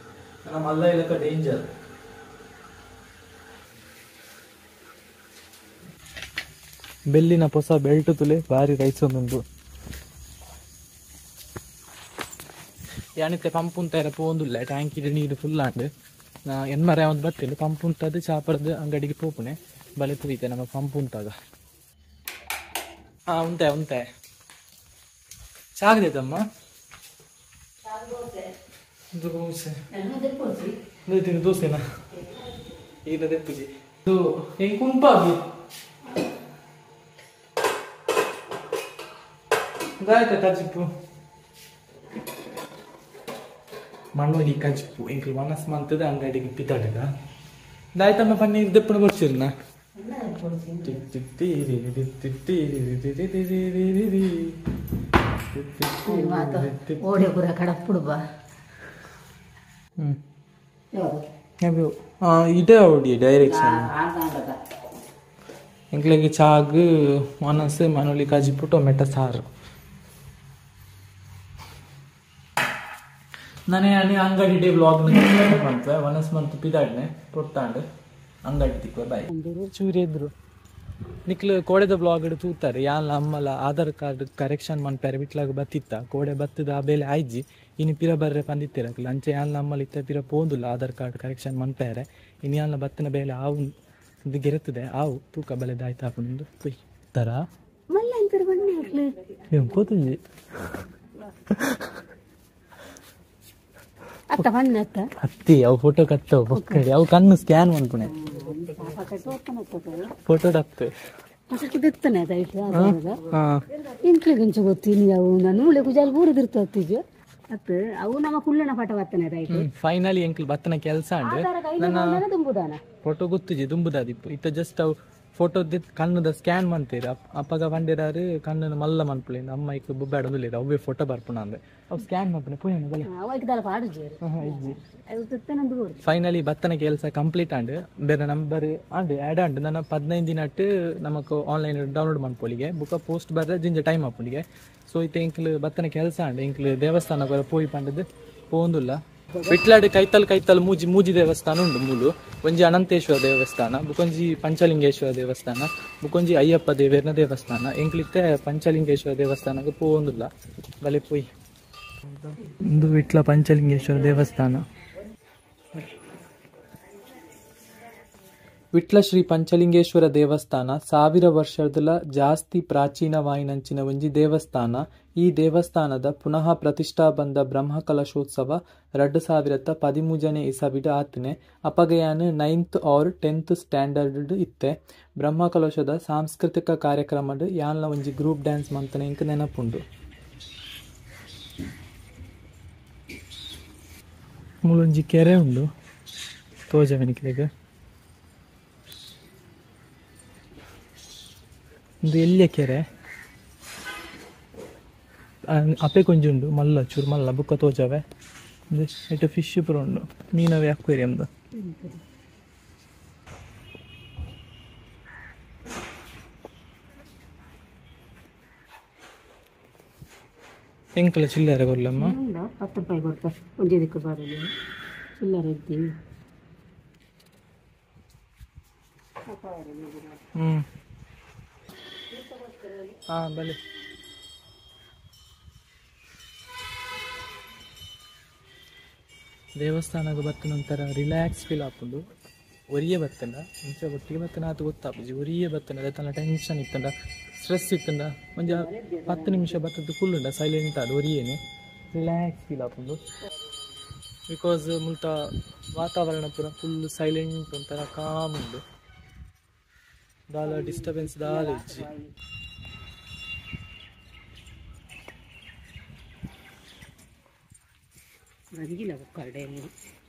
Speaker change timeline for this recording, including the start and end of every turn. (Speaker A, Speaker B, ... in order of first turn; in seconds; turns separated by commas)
Speaker A: 0.5-1.7, Speaker A: 7.1-9.4, Speaker A: 13.2-15.9, Speaker A: 16.5-21.4, Speaker A: 23.3-24.1, Speaker A: 25.8-26.4, Speaker B: 27.9-28.5, Speaker A: 29.1-29.8, Speaker B: 29.9-30.8, Speaker A: 31.1-31.8, Speaker A: 33.0-35.4, Speaker A: 40.0-40.9, Speaker A: 44.1-47.1, Speaker A: 48.0-49.5, Speaker B: 50.0-51.0, Speaker A: 50.8-54.6, Speaker A: 55.5-57.3, Speaker B: 56.1-58.2, Speaker B: 60.9-61.3, Speaker A: 61.6-63.9, Speaker B: 63.4-64.6, Speaker A: 65.9-69.5, Speaker A: 73.7-77.8, Speaker A: 78.5-80.3, Speaker B: 79.3-79.7, Speaker A: 81.3-93.7, Speaker A: 94.3-97.5, Speaker B: 97.9-99.1, Speaker A: 99.5-100.2, Speaker A: 101.5-102.0, Speaker B: 104.3-105.1, Speaker A: 105.2-108.1, Speaker B: 106.5-106.8, Speaker B: 108.1-110.1, Speaker A: 110.2-110.9, Speaker B: 111.5-113.3, Speaker A: 112.7-113.6, Speaker B: 113.9-119.7, Speaker A: 119.5-122.2, Speaker B: 121.2-122.8, Speaker A: 123.0-133.1, Speaker B: 133.1-136.0, Speaker A: 134.2-134.8, Speaker A: 136.0-160.3, Speaker A: 160.8-161.3, Speaker A: 162.1-164.6, Speaker A: 168.7-189.8, Speaker A: 194.6-195.7, Speaker A: 196.7-197.5, Speaker A: 202.0-202.9, Speaker A: 205.5-208.0, Speaker A: 208.7-211.3, Speaker B: 211.6-212.0, Speaker A: 221.0-222.2, Speaker B: 222.0-224.5, Speaker B: 225.2-225.9, Speaker B: 229.3-230.2, Speaker A: 230.3-230.7, Speaker B: 232.1-233.0, Speaker A: 233.1-233.6, Speaker A: 239.6-242.0, Speaker A: 242.7-251.4, Speaker B: 248.5-249.6, Speaker A: 251.9-253.0, Speaker A: 254.3-258.6, Speaker A: 260.3-261.9, Speaker B: 260.4-262.1, Speaker B: 268.6-269.7